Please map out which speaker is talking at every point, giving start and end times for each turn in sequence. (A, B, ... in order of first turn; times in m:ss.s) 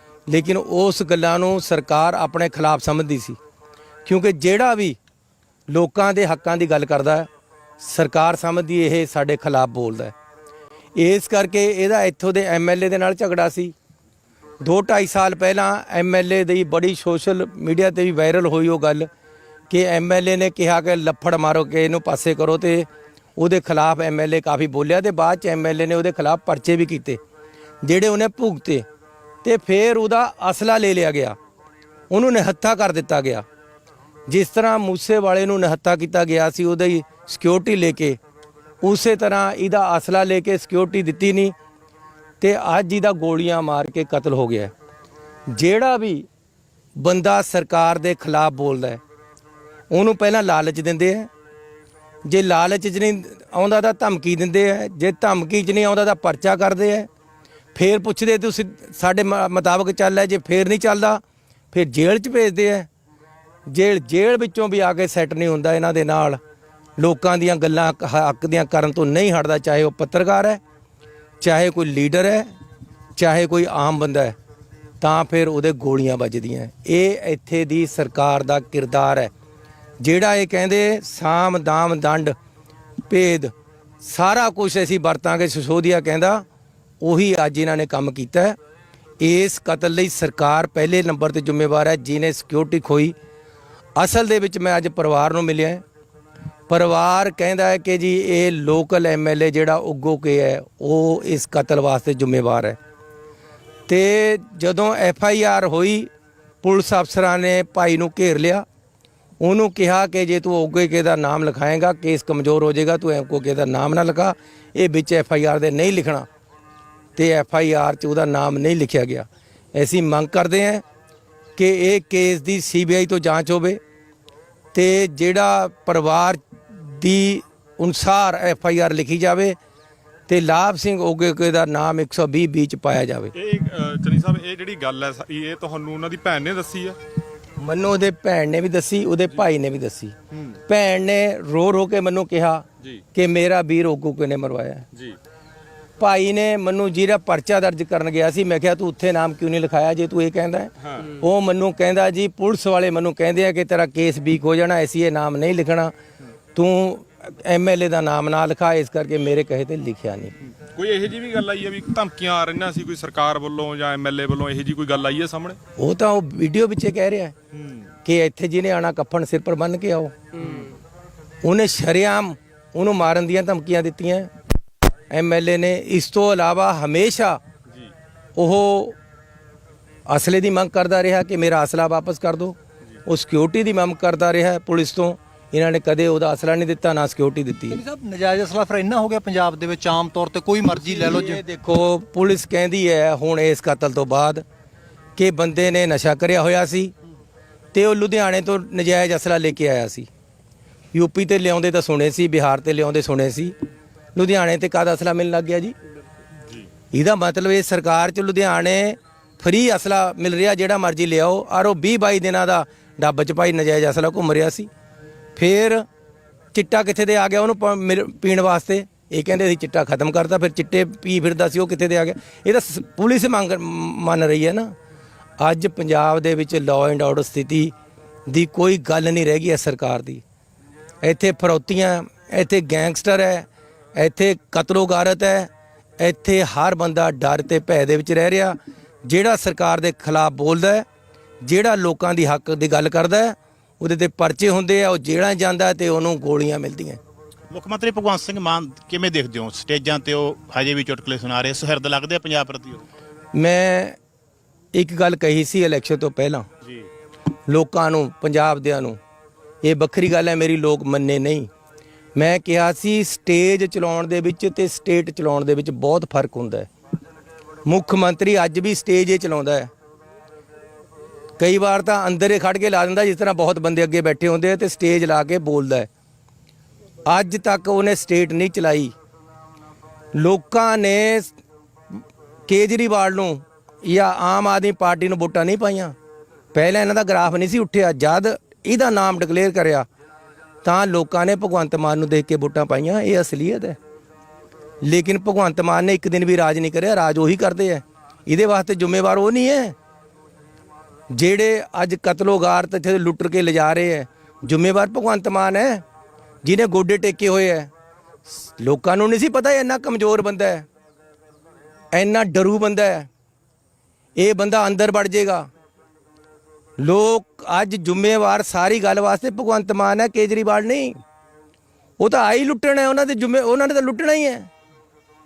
0:00.3-0:03.4 A
0:04.0-0:05.0 A
0:05.7-0:07.3 A
0:07.8-0:10.1 A
0:11.0-0:13.7 A
0:14.6-0:19.1 A
0:19.7-0:27.2 A
0:27.8-0:28.8 A
0:29.4-0:31.4 A
0:32.1-0:33.4 A
0:34.3-0:38.2 A
0:38.8-0:41.5 A
0:42.4-0:44.7 A
0:45.5-0:46.2 A
0:47.0-0:49.0 A
0:49.9-0:51.3 A
0:52.3-0:57.1 A
0:57.7-1:02.9 A
1:03.7-1:06.4 A
1:07.0-1:10.6 A
1:11.4-1:12.5 A
1:13.2-1:14.3 A
1:15.0-1:19.3 A
1:20.0-1:22.3 A
1:23.1-1:26.4 A
1:27.0-1:28.6 A
1:29.2-1:33.1 A
1:34.0-1:35.8 A
1:36.7-1:42.8 A
1:43.9-1:46.1 A
1:46.6-1:48.6 A
1:49.4-1:56.3 A
1:57.2-2:00.8 A
2:01.6-2:03.8 A
2:04.7-2:09.6 A
2:10.3-2:13.3 A
2:13.3-2:17.0 B
2:17.6-2:20.1 A
2:20.3-2:20.6 B
2:20.7-2:24.8 A
2:24.9-2:25.2 B
2:26.0-2:35.9 A
2:30.8-2:31.1 B
2:36.5-2:40.3 A
2:40.4-2:45.6 B
2:45.8-2:47.3 A
2:47.5-2:47.9 B
2:48.0-2:50.3 A
2:50.4-2:50.7 B
2:51.4-2:54.3 A
2:55.1-2:57.4 A
2:58.4-2:59.0 A
3:00.1-3:07.8 A
3:07.7-3:11.4 C
3:10.7-3:14.4 A
3:15.2-3:16.9 A
3:17.7-3:20.1 A
3:20.9-3:23.5 A
3:24.1-3:25.7 A
3:26.4-3:26.7 B
3:26.9-3:34.7 A
3:35.4-3:35.8 A
3:36.5-3:44.7 A
3:45.4-3:47.7 A
3:48.3-3:50.2 A
3:51.0-4:00.8 A
4:01.4-4:07.0 A
4:07.5-4:12.8 D
4:13.3-4:14.0 A
4:14.7-4:16.5 A
4:16.6-4:16.9 D
4:17.5-4:19.0 A
4:19.6-4:21.5 A
4:22.2-4:26.7 A
4:27.6-4:29.7 A
4:31.4-4:35.9 A
4:37.1-4:38.9 A
4:40.1-4:41.3 A
4:42.5-4:45.9 A
4:46.5-4:49.8 A
4:50.6-4:53.8 A
4:54.8-4:59.8 A
5:01.1-5:05.8 A
5:06.4-5:07.7 A
5:08.3-5:10.7 A
5:11.9-5:13.1 A
5:14.2-5:15.5 A
5:16.8-5:21.0 A
5:22.0-5:24.5 A